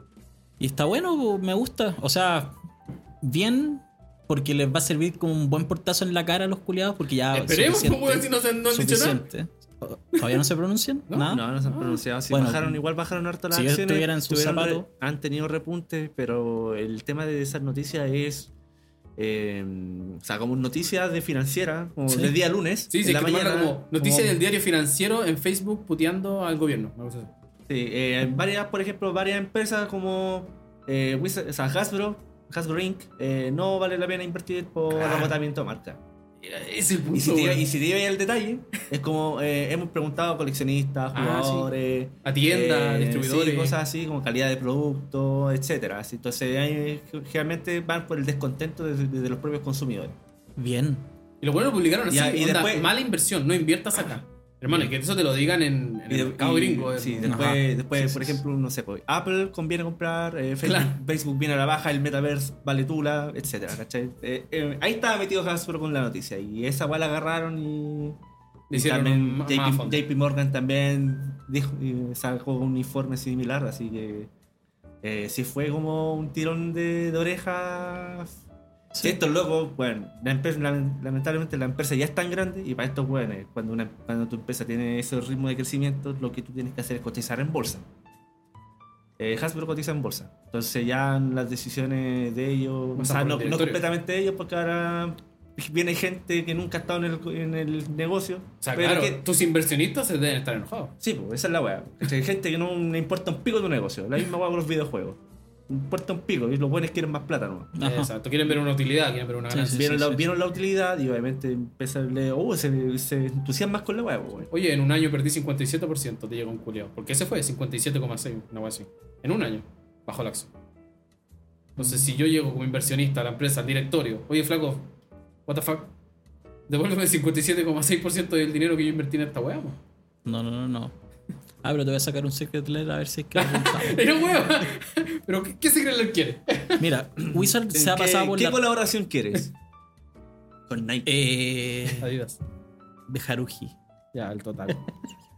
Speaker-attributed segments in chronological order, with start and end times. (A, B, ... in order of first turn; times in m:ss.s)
0:00.6-0:02.6 A
0:03.2-0:11.5 A
0:07.3-0:09.3 B
0:11.1-0:12.0 B
0:11.2-0:18.5 C
0:12.3-0:12.8 A
0:13.5-0:14.8 A
0:19.2-0:24.4 C
0:22.1-0:22.3 A
0:22.9-0:27.3 B
0:27.7-0:36.0 C
0:34.9-0:35.4 B
0:36.4-0:37.6 B
0:37.1-0:50.1 C
0:41.1-0:41.7 B
0:42.2-0:43.8 B
0:50.6-0:51.0 A
0:51.4-0:57.4 B
0:52.1-0:52.9 C
0:56.1-1:08.2 C
0:57.2-0:58.4 A
1:00.6-1:01.0 B
1:08.7-1:10.0 B
1:08.7-1:14.3 C
1:15.0-1:18.3 C
1:18.9-1:19.2 A
1:19.0-1:27.8 C
1:29.2-1:39.2 C
1:33.0-1:33.8 B
1:38.6-1:40.9 B
1:41.0-1:45.2 C
1:45.7-1:47.7 C
1:47.8-1:48.1 A
1:47.8-1:50.2 B
1:49.5-1:50.2 A
1:49.7-1:54.5 C
1:54.5-2:00.5 B
2:01.8-2:04.9 B
2:05.5-2:05.9 B
2:06.7-2:09.8 B
2:10.2-2:10.9 A
2:11.6-2:14.2 A
2:13.3-2:16.8 B
2:16.8-2:18.6 A
2:17.3-2:19.5 C
2:20.7-2:21.1 C
2:21.0-2:22.1 A
2:22.0-2:22.4 B
2:23.1-2:23.8 A
2:24.1-2:24.9 B